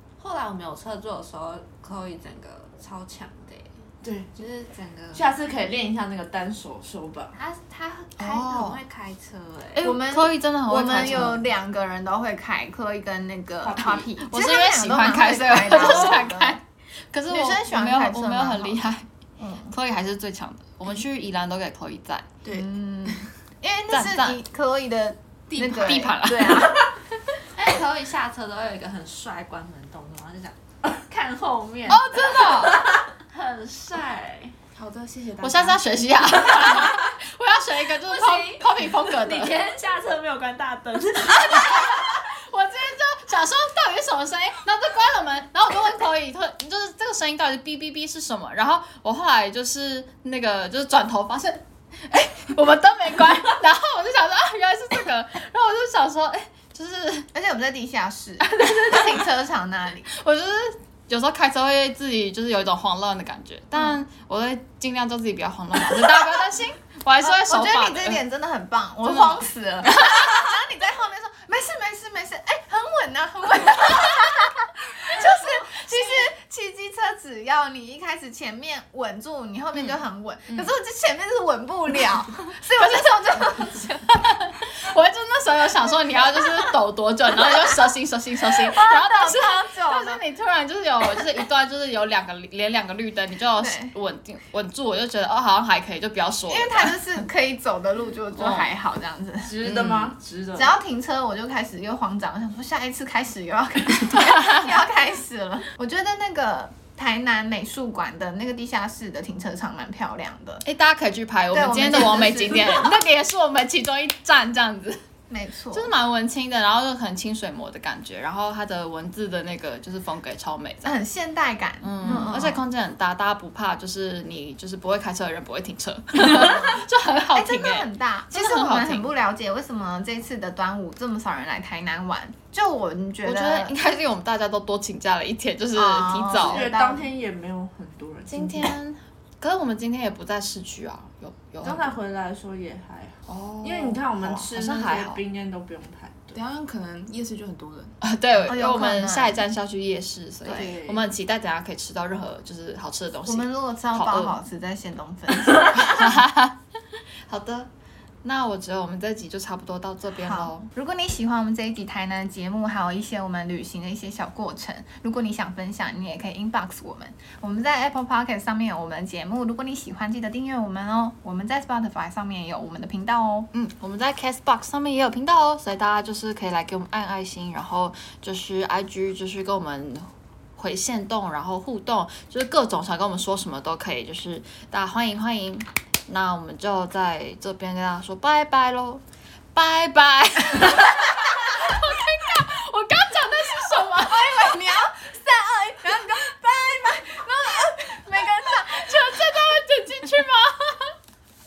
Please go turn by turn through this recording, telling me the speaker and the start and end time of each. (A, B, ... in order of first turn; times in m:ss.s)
0:00.2-0:03.8 A
0:04.0-0:04.4 B
0:04.4-0:05.3 A
0:05.1-0:07.4 B
0:07.3-0:09.9 A
0:08.2-0:08.8 C
0:09.7-0:11.4 C
0:09.8-0:16.6 D
0:13.6-0:14.1 B
0:14.2-0:16.6 C
0:17.1-0:19.0 C
0:17.3-0:18.8 D
0:19.4-0:19.7 D
0:19.7-0:22.3 C
0:22.5-0:26.8 D
0:23.9-0:24.4 C
0:25.5-0:26.6 E
0:25.6-0:26.8 C
0:27.5-0:34.5 A
0:31.9-0:32.8 C
0:34.8-0:35.8 E
0:35.4-0:39.6 C
0:38.0-0:42.1 A
0:41.5-0:57.3 C
0:57.3-1:00.1 D
0:58.4-0:59.3 C
1:00.1-1:08.2 C
1:07.2-1:24.1 D
1:09.0-1:10.4 C
1:15.0-1:16.3 C
1:19.7-1:20.7 C
1:22.8-1:37.2 C
1:28.5-1:30.2 D
1:33.6-1:33.9 D
1:36.5-1:39.6 D
1:38.3-1:38.7 C
1:39.4-1:40.7 B
1:40.5-1:50.6 D
1:50.6-1:55.0 C
1:51.5-1:52.9 D
1:55.3-1:55.9 D
1:55.7-2:01.0 C
2:00.8-2:02.6 D
2:01.8-2:09.1 C
2:06.2-2:06.8 D
2:07.3-2:13.7 D
2:13.2-2:16.6 C
2:15.7-2:17.1 D
2:16.4-2:18.7 B
2:18.3-2:21.9 C
2:21.6-2:26.4 B
2:23.3-2:25.2 C
2:26.3-2:28.0 E
2:28.0-2:34.4 C
2:28.4-2:29.4 D
2:30.4-2:30.7 D
2:30.5-2:31.1 B
2:33.2-2:36.2 D
2:35.6-2:36.6 C
2:37.2-2:37.7 C
2:38.2-2:40.7 C
2:40.2-2:53.5 D
2:53.5-3:09.0 C
3:09.5-3:14.7 C
3:14.0-3:19.2 D
3:18.3-3:21.0 C